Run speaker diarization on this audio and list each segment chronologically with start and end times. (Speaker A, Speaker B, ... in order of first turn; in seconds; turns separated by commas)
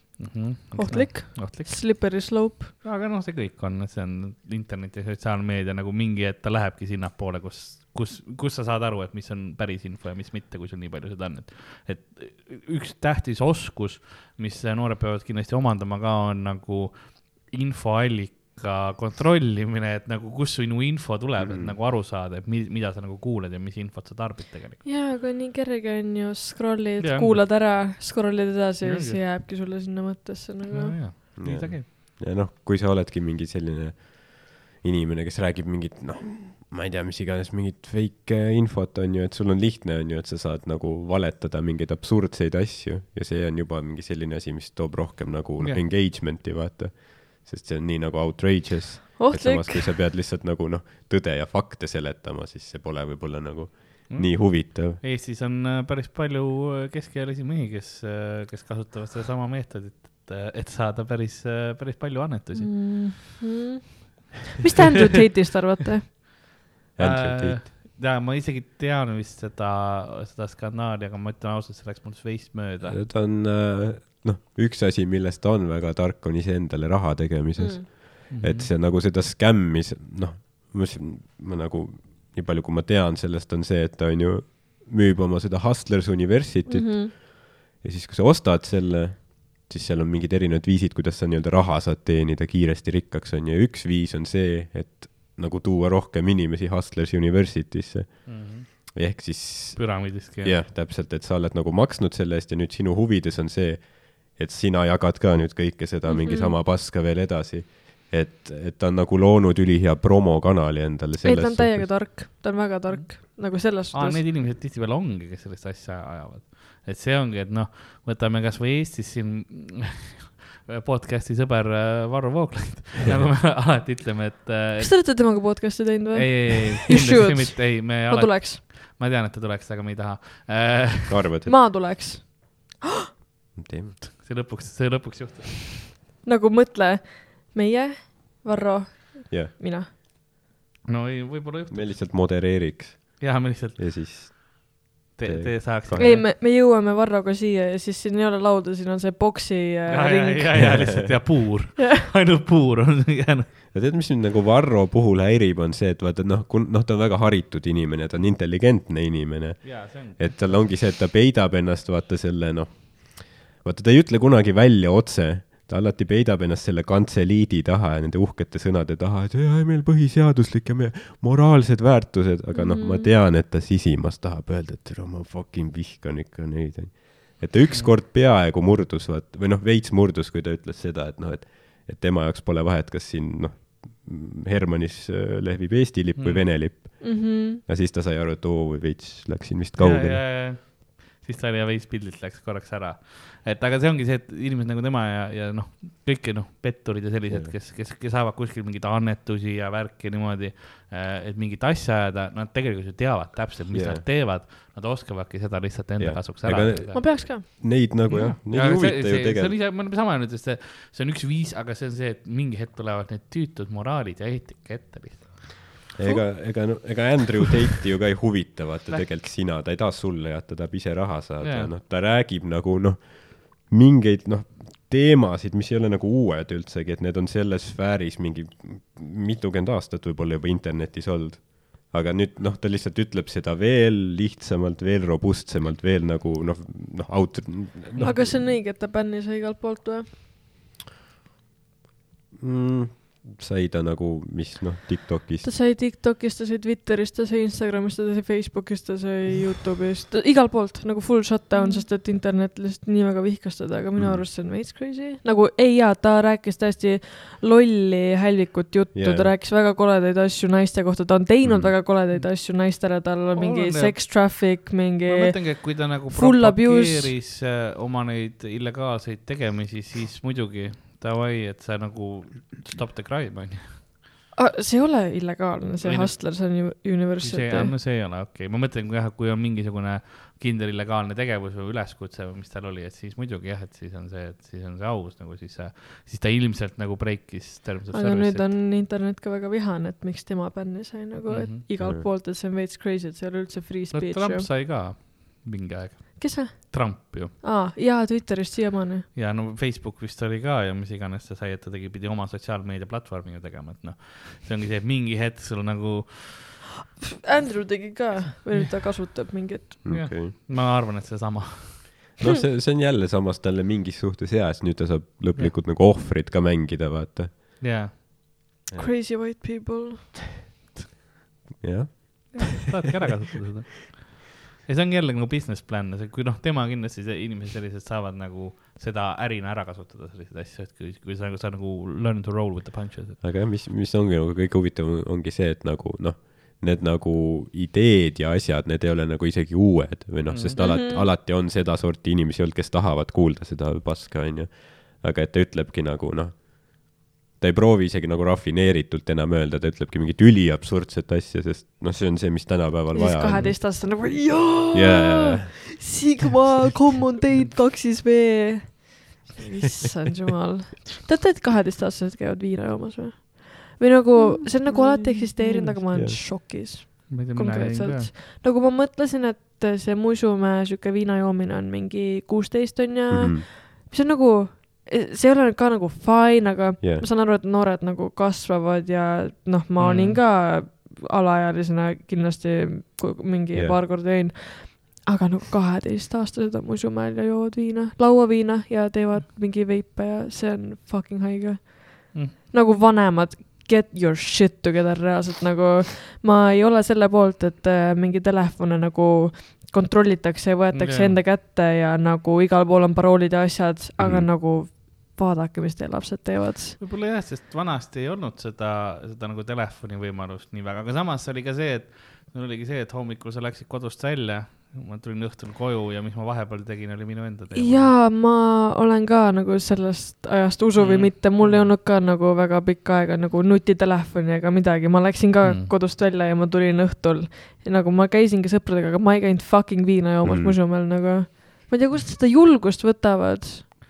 Speaker A: 0.2-24.8, Speaker B: 0.7-2.7, Speaker C: 21.4-21.7, Speaker B: 24.8-31.0, Speaker A: 27.0-27.4, Speaker A: 28.8-29.2, Speaker A: 30.7-31.9, Speaker C: 31.4-55.0, Speaker B: 49.2-49.9, Speaker A: 54.1-63.1, Speaker B: 62.5-66.1, Speaker C: 67.0-67.7, Speaker A: 67.0-73.0, Speaker C: 72.8-112.1, Speaker B: 77.6-77.8, Speaker A: 78.3-78.7, Speaker B: 86.7-87.1, Speaker A: 98.2-98.7, Speaker A: 99.8-100.6, Speaker B: 106.0-106.5, Speaker B: 111.2-114.2, Speaker A: 112.9-125.6, Speaker C: 123.0-123.3, Speaker B: 124.8-128.6, Speaker A: 126.1-131.2, Speaker C: 131.1-131.6, Speaker B: 131.4-132.8, Speaker C: 133.5-134.0, Speaker A: 134.1-135.9, Speaker B: 136.2-139.9, Speaker A: 140.9-142.1, Speaker C: 141.7-146.2, Speaker A: 143.2-144.3, Speaker A: 145.1-146.2, Speaker B: 146.0-151.2, Speaker A: 149.9-153.5, Speaker C: 150.6-151.5, Speaker B: 151.8-152.1, Speaker C: 153.7-190.2, Speaker A: 159.6-160.6, Speaker B: 172.5-173.1, Speaker A: 186.2-186.5, Speaker B: 187.0-187.6, Speaker A: 189.8-207.0, Speaker C: 197.3-197.6, Speaker C: 203.7-204.1, Speaker C: 206.0-209.6, Speaker B: 206.9-207.4, Speaker A: 208.1-215.7, Speaker C: 215.9-238.4, Speaker A: 221.4-221.7, Speaker B: 238.0-240.1, Speaker A: 238.0-238.3, Speaker C: 242.4-245.5, Speaker B: 245.4-267.1, Speaker C: 253.9-254.2, Speaker C: 258.9-259.3, Speaker C: 261.4-261.7, Speaker A: 262.1-273.9, Speaker B: 274.3-277.7, Speaker A: 275.8-288.5, Speaker B: 287.9-294.5, Speaker A: 291.2-291.6, Speaker C: 291.8-292.1, Speaker A: 293.9-297.3, Speaker B: 296.2-299.1, Speaker A: 299.1-306.7, Speaker B: 307.2-310.1, Speaker A: 308.0-308.6, Speaker C: 309.8-310.3, Speaker A: 309.9-311.9, Speaker C: 312.2-317.6, Speaker A: 317.6-317.9, Speaker B: 318.8-320.1, Speaker C: 321.6-322.6, Speaker A: 322.3-333.2, Speaker C: 333.2-355.7, Speaker A: 340.3-340.6, Speaker B: 340.6-341.1, Speaker B: 352.9-406.8, Speaker A: 365.4-365.7, Speaker C: 365.9-366.2, Speaker A: 367.1-368.1, Speaker C: 373.1-373.5, Speaker C: 376.8-377.1, Speaker A: 379.8-380.2, Speaker C: 383.5-383.8, Speaker A: 400.7-401.2, Speaker C: 404.0-404.3, Speaker A: 406.8-417.9, Speaker B: 417.5-433.6, Speaker A: 420.8-421.7, Speaker A: 425.4-425.7, Speaker C: 430.2-430.6